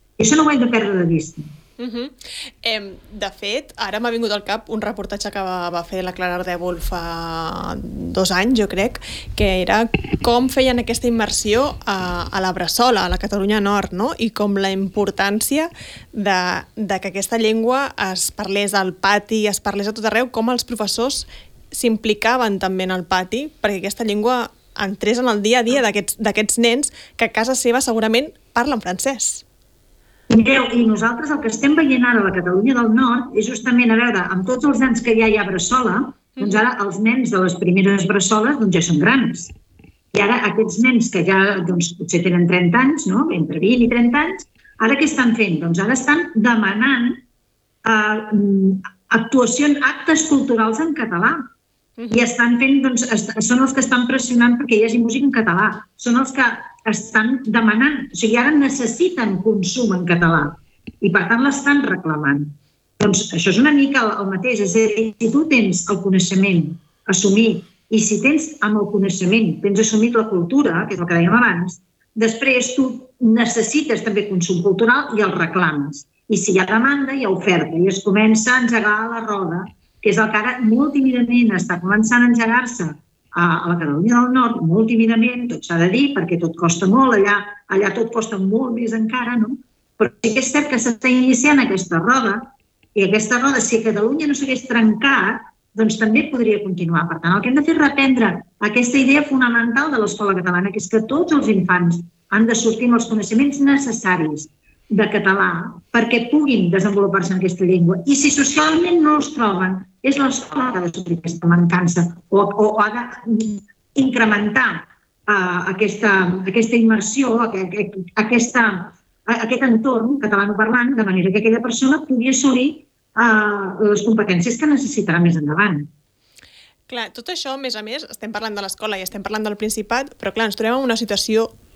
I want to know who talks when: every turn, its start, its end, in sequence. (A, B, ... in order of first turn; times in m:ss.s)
0:00.2-0:01.5 A
0:01.8-0:29.4 B
0:30.3-0:39.5 A
0:36.4-0:36.6 B
0:40.1-0:47.2 A
0:47.8-0:51.5 A
0:52.0-0:52.3 B
0:52.1-2:05.9 A
2:06.9-2:11.5 B